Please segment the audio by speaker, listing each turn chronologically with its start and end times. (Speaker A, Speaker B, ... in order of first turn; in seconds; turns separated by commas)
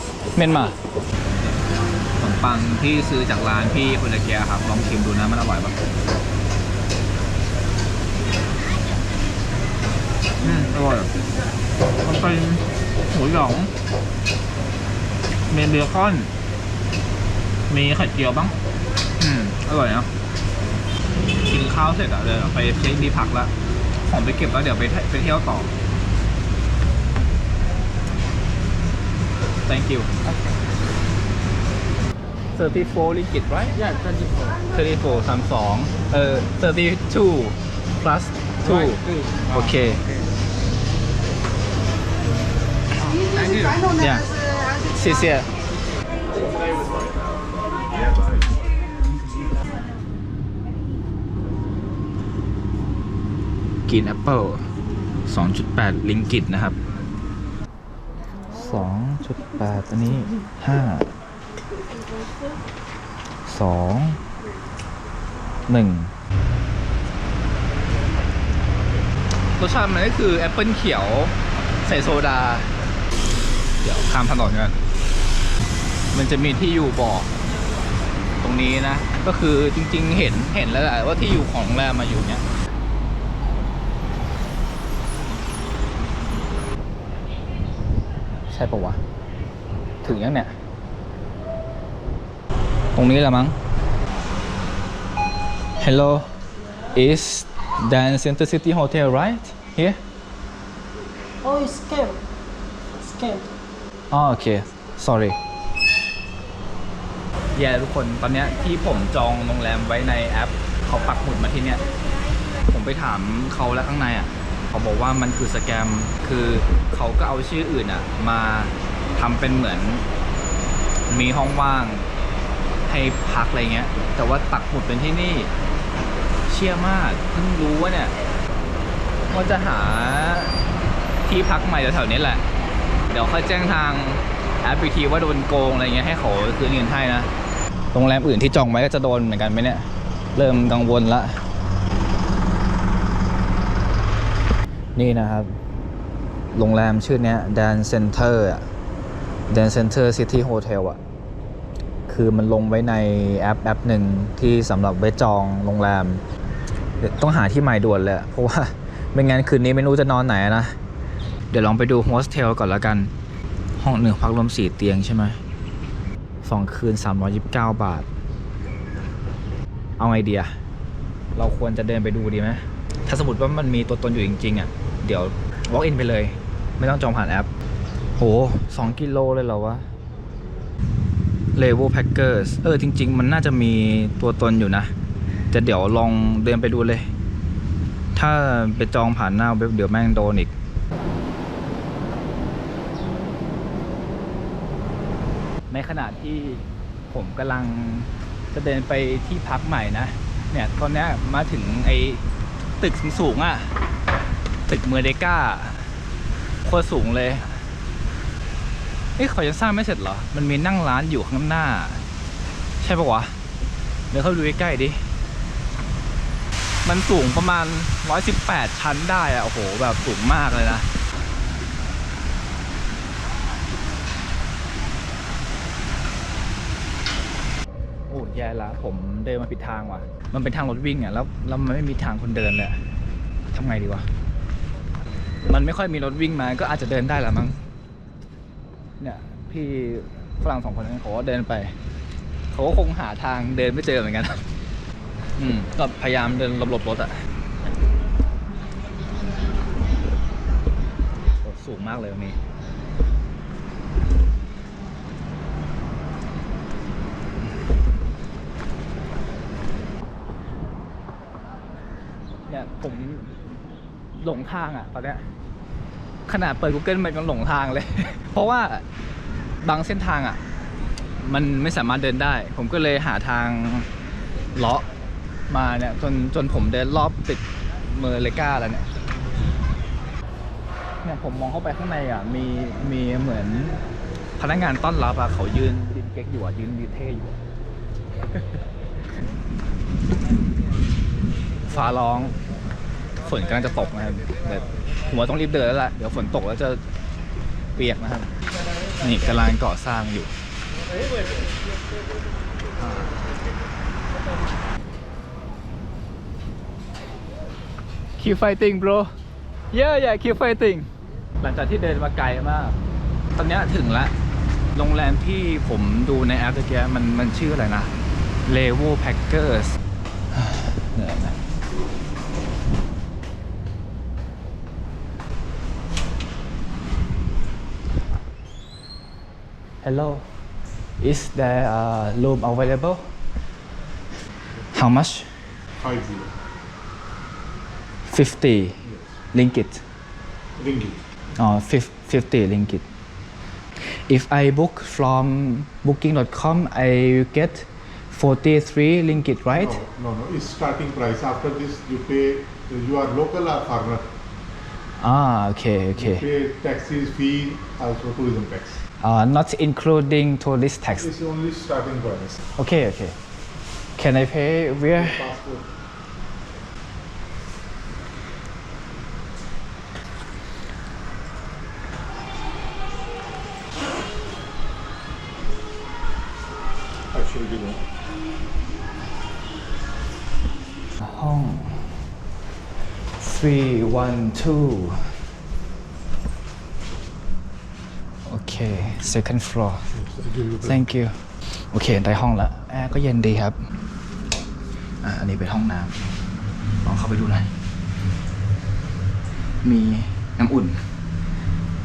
Speaker A: 0.3-0.8, Speaker A: 2.2-5.8, Speaker A: 10.4-11.1, Speaker A: 12.0-13.7, Speaker A: 15.5-16.3, Speaker A: 17.7-18.6, Speaker A: 19.2-20.1, Speaker A: 21.5-23.5, Speaker A: 24.1-25.7, Speaker A: 29.7-30.1, Speaker A: 32.5-33.8, Speaker B: 33.8-34.6, Speaker A: 34.7-40.0, Speaker A: 44.0-44.3, Speaker A: 44.9-45.5, Speaker A: 53.9-54.7, Speaker A: 55.3-56.8, Speaker A: 58.5-61.1, Speaker A: 63.5-64.2, Speaker A: 65.7-66.1, Speaker A: 69.6-72.7, Speaker A: 73.8-74.8, Speaker A: 76.1-77.3, Speaker A: 78.4-82.4, Speaker A: 88.5-89.0, Speaker A: 90.0-90.5, Speaker A: 93.0-93.6, Speaker A: 95.8-96.3, Speaker A: 97.0-100.0, Speaker B: 101.4-102.2, Speaker B: 103.0-103.5, Speaker A: 104.1-105.4, Speaker A: 107.5-111.8, Speaker A: 112.7-120.0, Speaker A: 121.1-122.1, Speaker A: 122.9-125.5, Speaker A: 126.5-128.1, Speaker A: 129.3-130.6, Speaker A: 131.2-132.4, Speaker A: 133.1-137.3, Speaker A: 137.9-141.4, Speaker A: 144.9-145.5, Speaker A: 146.5-148.7, Speaker A: 149.5-151.0, Speaker A: 152.1-156.2, Speaker A: 157.0-160.8, Speaker A: 161.5-163.1, Speaker A: 163.8-165.4, Speaker A: 166.4-168.1, Speaker A: 170.0-170.5, Speaker A: 171.3-177.5, Speaker A: 178.2-179.8, Speaker A: 181.6-184.9, Speaker A: 185.5-187.1, Speaker A: 188.2-190.5, Speaker A: 195.7-202.2, Speaker A: 202.8-203.7, Speaker A: 204.7-205.9, Speaker A: 206.7-207.6, Speaker A: 209.2-212.0, Speaker A: 212.8-213.3, Speaker A: 214.1-215.0, Speaker A: 216.8-220.8, Speaker A: 228.1-232.8, Speaker A: 233.5-234.1, Speaker A: 235.5-237.6, Speaker A: 239.0-241.7, Speaker A: 242.5-244.4, Speaker A: 245.4-247.1, Speaker A: 251.4-252.4, Speaker A: 262.5-263.3, Speaker A: 264.2-265.2, Speaker A: 266.3-268.8, Speaker A: 269.6-270.4, Speaker A: 271.2-273.9, Speaker A: 274.6-274.9, Speaker A: 275.5-278.9, Speaker A: 281.0-283.8, Speaker A: 284.4-287.4, Speaker A: 291.7-292.4, Speaker A: 293.2-296.8, Speaker A: 297.8-298.3, Speaker A: 299.0-300.3, Speaker A: 302.8-303.1, Speaker A: 308.2-309.1, Speaker A: 309.7-310.9, Speaker A: 311.4-312.8, Speaker A: 313.4-314.1, Speaker A: 314.8-317.9, Speaker A: 318.5-319.8, Speaker A: 320.3-321.4, Speaker A: 329.8-330.3, Speaker A: 331.0-333.1, Speaker A: 334.7-335.3, Speaker C: 335.8-336.3, Speaker A: 338.1-338.8, Speaker A: 339.3-339.8, Speaker C: 340.6-341.0, Speaker A: 341.4-342.8, Speaker A: 343.8-349.8, Speaker C: 349.6-354.1, Speaker A: 355.0-356.2, Speaker C: 356.0-358.8, Speaker A: 359.0-361.1, Speaker C: 361.0-362.4, Speaker A: 362.6-363.2, Speaker A: 364.0-365.3, Speaker C: 365.0-365.7, Speaker C: 377.2-377.7, Speaker A: 381.0-382.0, Speaker A: 383.2-385.1, Speaker A: 388.3-389.9, Speaker A: 390.5-393.6, Speaker A: 395.0-396.0, Speaker A: 396.8-397.5, Speaker A: 399.6-400.8